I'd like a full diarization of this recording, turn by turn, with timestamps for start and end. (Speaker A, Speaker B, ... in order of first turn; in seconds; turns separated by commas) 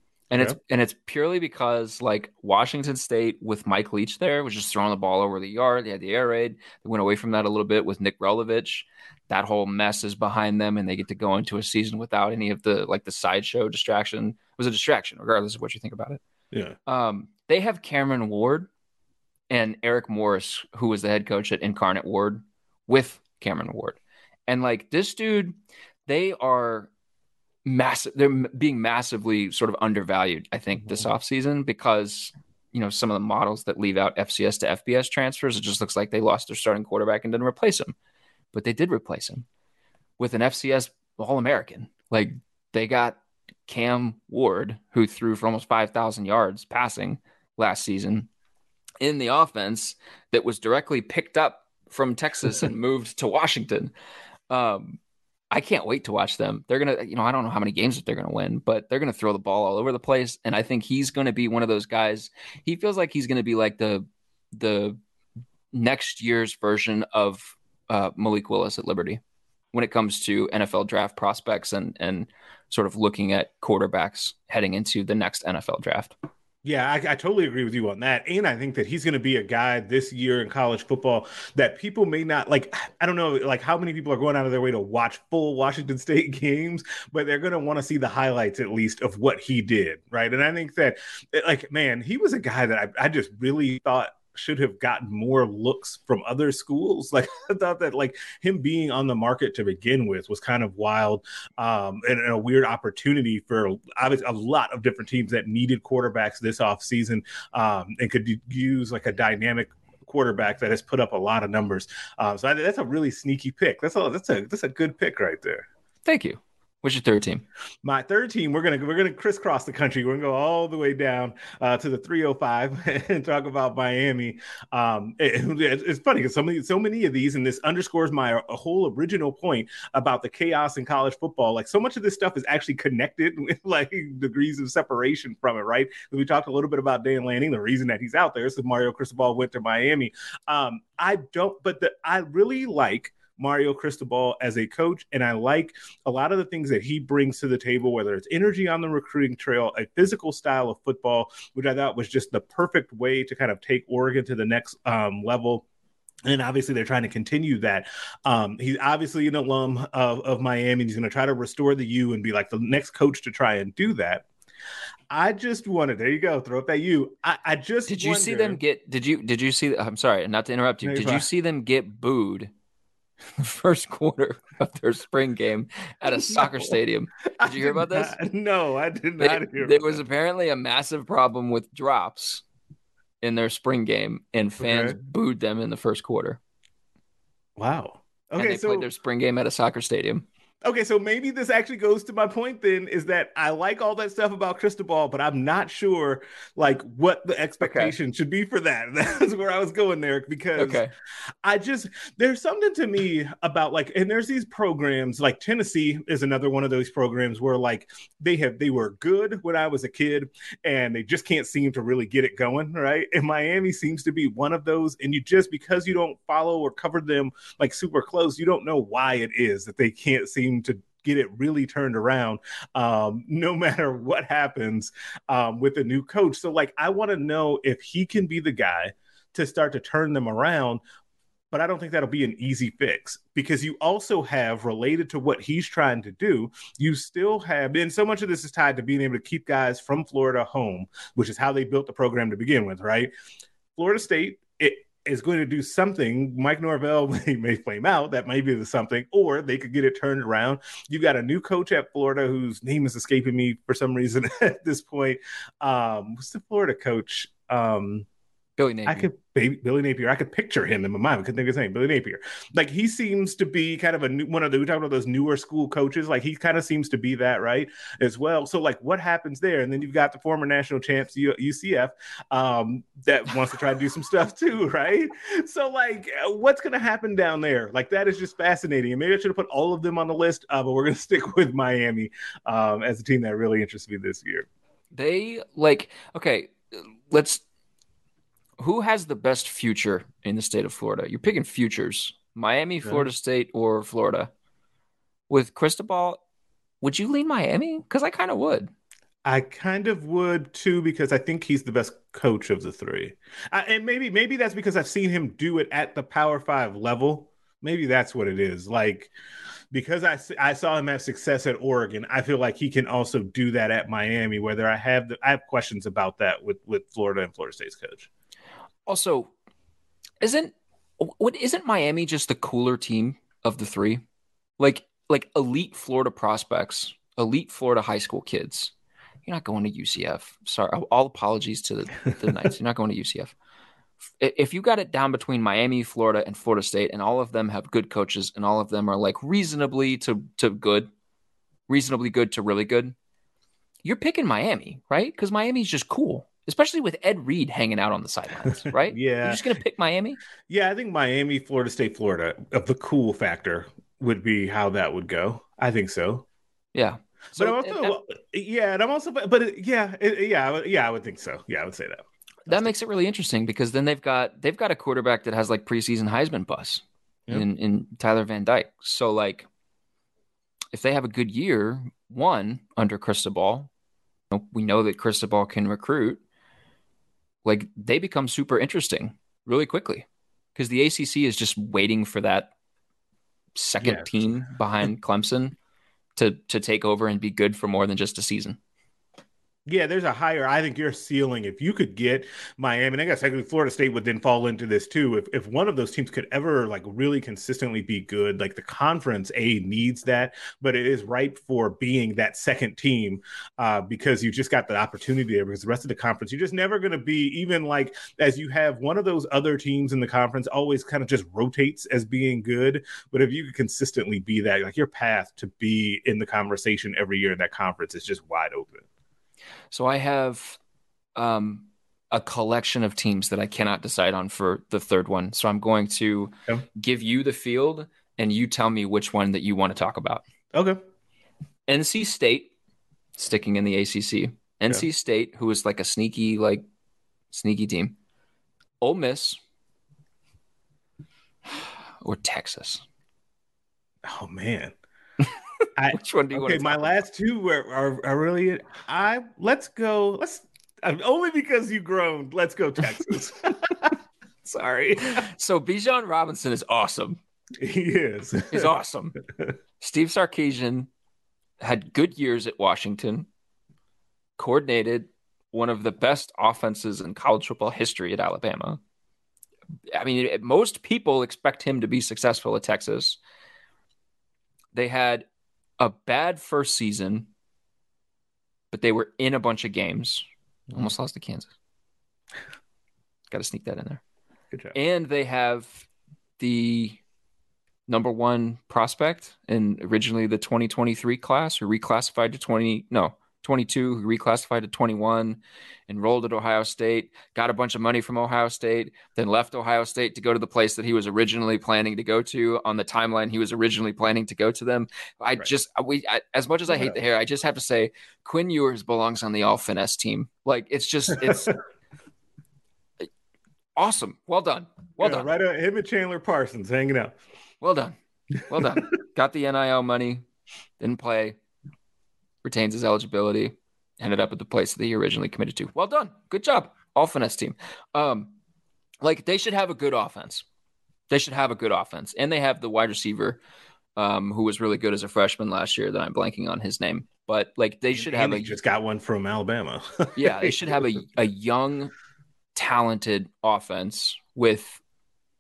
Speaker A: 0.3-16.2, Speaker A: 16.9-18.7, Speaker A: 19.5-26.9, Speaker A: 27.6-38.0, Speaker B: 30.8-31.1, Speaker A: 38.5-39.5, Speaker A: 40.2-48.3, Speaker A: 49.0-53.9, Speaker A: 54.5-55.0, Speaker A: 55.5-65.0, Speaker A: 65.7-69.2, Speaker A: 69.7-76.2, Speaker B: 76.6-115.7, Speaker A: 116.1-117.5, Speaker B: 117.8-155.6, Speaker B: 156.3-164.2, Speaker B: 165.1-168.6, Speaker A: 167.9-172.5, Speaker B: 170.8-171.3, Speaker A: 173.4-178.2, Speaker B: 176.0-176.8, Speaker B: 177.4-180.0, Speaker A: 179.2-182.4, Speaker A: 183.2-186.4, Speaker B: 184.6-185.0, Speaker B: 187.6-188.9, Speaker A: 188.4-190.2, Speaker B: 190.6-200.8, Speaker A: 197.6-197.9, Speaker A: 200.6-200.9, Speaker B: 201.4-230.8, Speaker B: 231.5-243.1, Speaker B: 243.8-258.1, Speaker A: 258.6-259.1, Speaker B: 258.9-284.5, Speaker A: 284.9-287.4, Speaker A: 288.6-294.3, Speaker A: 295.3-296.2, Speaker A: 296.8-298.7, Speaker B: 299.2-309.1, Speaker B: 309.7-318.1, Speaker A: 318.9-319.3, Speaker A: 320.2-324.0, Speaker A: 324.6-328.7, Speaker A: 329.3-333.3, Speaker A: 334.2-340.9, Speaker A: 341.7-342.9, Speaker A: 343.8-350.2, Speaker B: 348.6-349.4, Speaker B: 350.5-356.3, Speaker A: 356.7-357.9, Speaker B: 357.4-362.7, Speaker A: 362.5-369.5, Speaker A: 370.7-373.7, Speaker A: 374.3-376.2, Speaker A: 377.4-382.5, Speaker A: 383.6-385.6, Speaker B: 383.8-384.3, Speaker A: 386.2-388.6, Speaker B: 389.7-418.8, Speaker A: 419.7-420.6, Speaker A: 421.2-430.2, Speaker B: 430.5-430.8, Speaker A: 431.7-432.5, Speaker A: 433.2-436.6, Speaker A: 437.3-437.9, Speaker A: 438.8-439.4, Speaker A: 442.0-442.8, Speaker B: 444.1-444.7, Speaker B: 445.8-453.9, Speaker A: 445.9-447.1, Speaker A: 454.5-457.2, Speaker B: 454.5-455.2, Speaker B: 457.6-458.7, Speaker A: 458.5-459.2, Speaker A: 459.8-460.9, Speaker A: 461.6-463.3, Speaker A: 464.4-468.8, Speaker A: 469.9-473.2, Speaker A: 474.7-475.3, Speaker A: 475.8-477.3, Speaker A: 478.7-481.5, Speaker A: 483.3-484.0, Speaker A: 484.8-485.9, Speaker A: 486.4-487.0, Speaker A: 487.9-511.6, Speaker B: 506.7-507.0, Speaker B: 511.1-511.5, Speaker A: 513.8-515.3, Speaker B: 515.0-517.1, Speaker A: 517.6-520.2, Speaker B: 518.5-518.9, Speaker A: 520.8-521.4, Speaker A: 522.4-528.3, Speaker A: 529.0-530.5, Speaker A: 531.1-533.4, Speaker A: 534.0-538.6, Speaker B: 537.9-540.8, Speaker A: 540.2-541.9, Speaker A: 542.5-544.8